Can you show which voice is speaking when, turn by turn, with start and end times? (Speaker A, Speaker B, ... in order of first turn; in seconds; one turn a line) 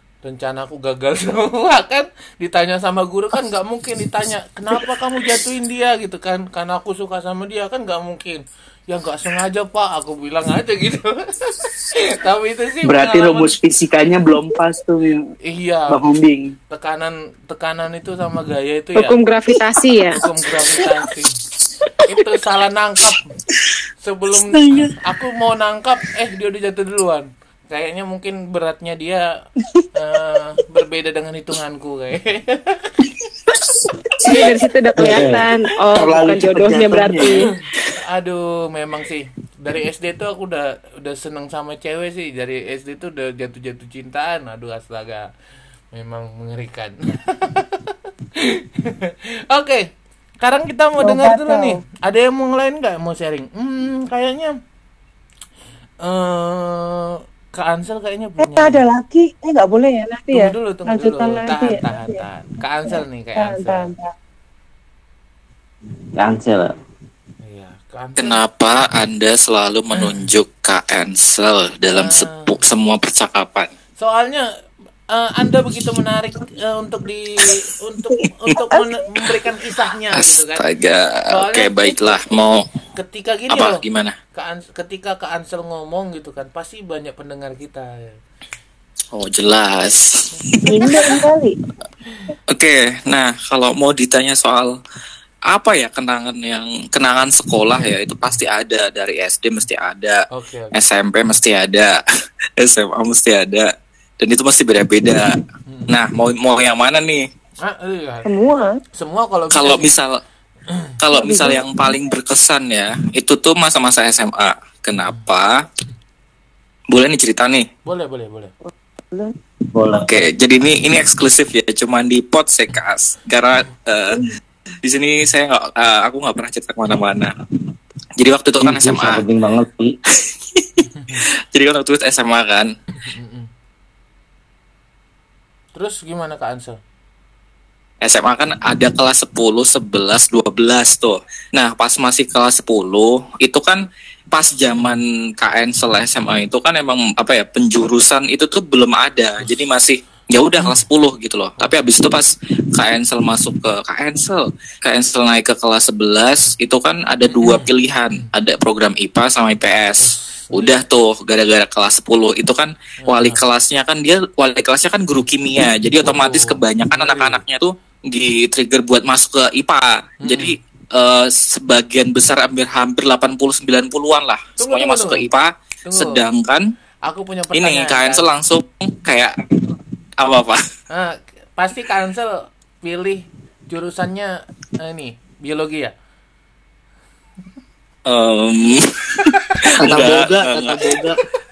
Speaker A: 0.2-13.6
Speaker B: 12.8-15.2
Speaker A: 15.4-16.0
Speaker B: 15.9-16.5
Speaker A: 16.7-19.2
Speaker C: 18.9-20.2
Speaker A: 20.2-21.3
Speaker B: 20.6-20.9
Speaker A: 22.1-23.2
Speaker A: 24.0-29.2
Speaker B: 24.4-25.0
Speaker A: 29.9-33.0
Speaker B: 33.5-34.5
Speaker C: 34.3-37.5
Speaker D: 35.0-35.4
Speaker B: 35.9-37.9
Speaker A: 38.0-45.3
Speaker A: 45.9-49.9
Speaker A: 50.4-54.5
Speaker E: 51.0-51.8
Speaker A: 56.0-58.8
Speaker E: 58.4-62.2
Speaker A: 60.3-63.9
Speaker E: 63.4-64.1
Speaker D: 66.2-66.7
Speaker A: 67.4-68.4
Speaker F: 68.2-73.7
Speaker A: 70.0-70.2
Speaker A: 71.9-72.6
Speaker A: 74.0-74.4
Speaker A: 75.1-80.6
Speaker E: 78.2-78.9
Speaker F: 80.1-82.6
Speaker A: 81.3-82.4
Speaker A: 83.0-83.8
Speaker F: 83.5-84.2
Speaker A: 84.3-88.2
Speaker F: 89.1-91.2
Speaker E: 90.6-91.6
Speaker F: 92.5-94.7
Speaker F: 95.5-101.9
Speaker A: 100.3-100.8
Speaker F: 102.6-103.7
Speaker F: 104.2-105.3
Speaker F: 105.9-107.2
Speaker A: 107.6-108.3
Speaker E: 108.3-108.8
Speaker A: 108.9-109.9
Speaker F: 109.5-110.2
Speaker F: 111.0-115.7
Speaker E: 111.1-111.7
Speaker F: 116.9-117.7
Speaker A: 117.8-118.5
Speaker E: 118.7-119.3
Speaker D: 119.7-120.2
Speaker F: 120.1-124.3
Speaker F: 124.8-127.3
Speaker F: 128.2-129.2
Speaker D: 128.6-129.9
Speaker F: 130.6-130.8
Speaker A: 130.9-131.2
Speaker F: 131.5-132.7
Speaker A: 133.0-133.5
Speaker A: 135.7-136.8
Speaker F: 138.0-176.6
Speaker A: 150.6-150.8
Speaker A: 151.6-151.9
Speaker A: 157.3-158.3
Speaker A: 160.0-160.8
Speaker A: 163.0-163.4
Speaker A: 166.0-167.4
Speaker A: 170.2-170.6
Speaker A: 174.6-175.3
Speaker A: 175.8-176.2
Speaker A: 177.1-178.3
Speaker F: 177.6-179.3
Speaker F: 180.2-180.6
Speaker A: 180.9-185.9
Speaker F: 188.1-191.0
Speaker B: 189.8-191.2